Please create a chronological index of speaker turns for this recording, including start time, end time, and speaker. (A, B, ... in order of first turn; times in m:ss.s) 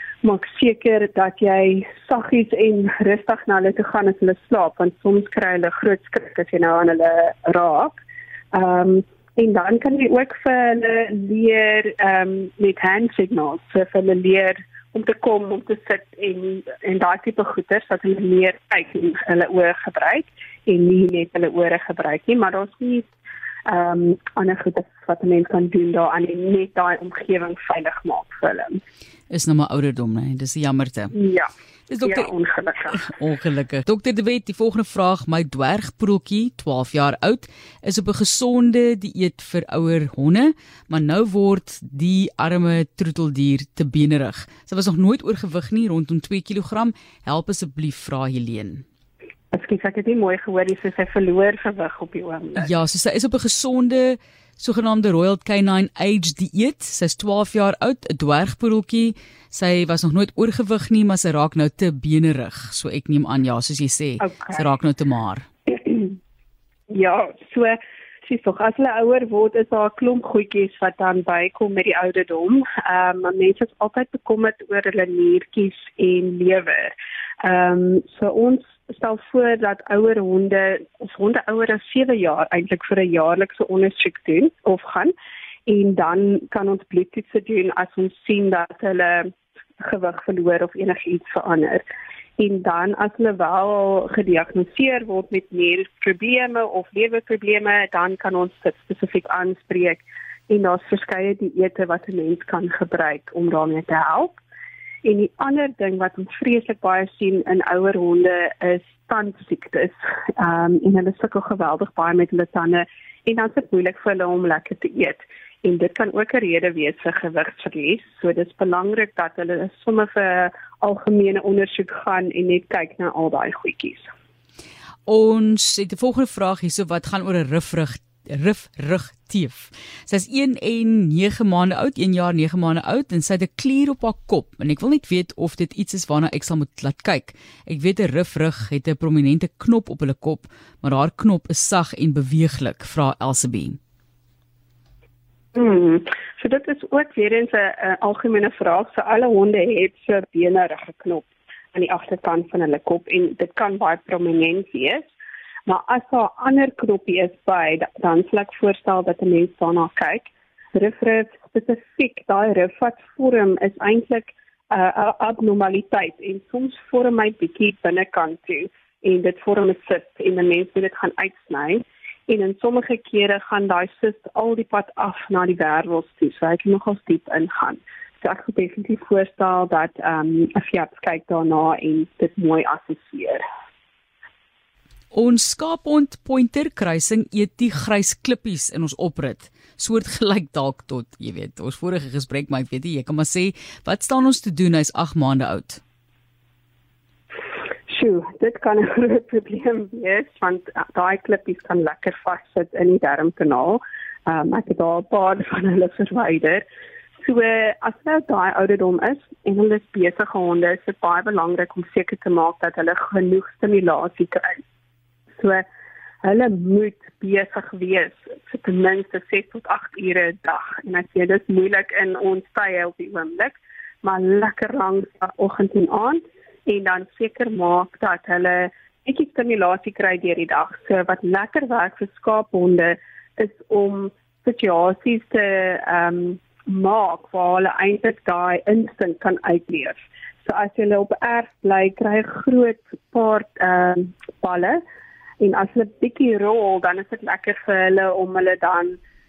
0:00.2-0:08.0 A
0:08.5-0:23.1 A
0:23.7-0:28.8 A
0:29.3-0:31.1 B
0:31.1-0:31.5 A
0:31.9-0:32.3 B
0:32.0-0:33.1 A
0:33.0-0:48.8 B
0:49.5-0:52.7 A
0:52.6-1:05.5 B
1:04.2-1:04.6 A
1:05.7-1:06.2 A
1:06.9-1:25.1 A
1:25.7-1:29.3 A
1:29.8-1:31.8 A
1:32.4-1:44.4 A
1:45.0-2:04.1 A
2:05.1-2:23.8 B
2:25.6-2:35.1 A
2:35.7-3:03.4 A
3:05.1-3:15.8 B
3:17.9-3:26.6 A
3:27.2-3:34.6 A
3:35.4-3:35.6 A
3:36.2-4:04.8 A
4:05.4-4:09.0 A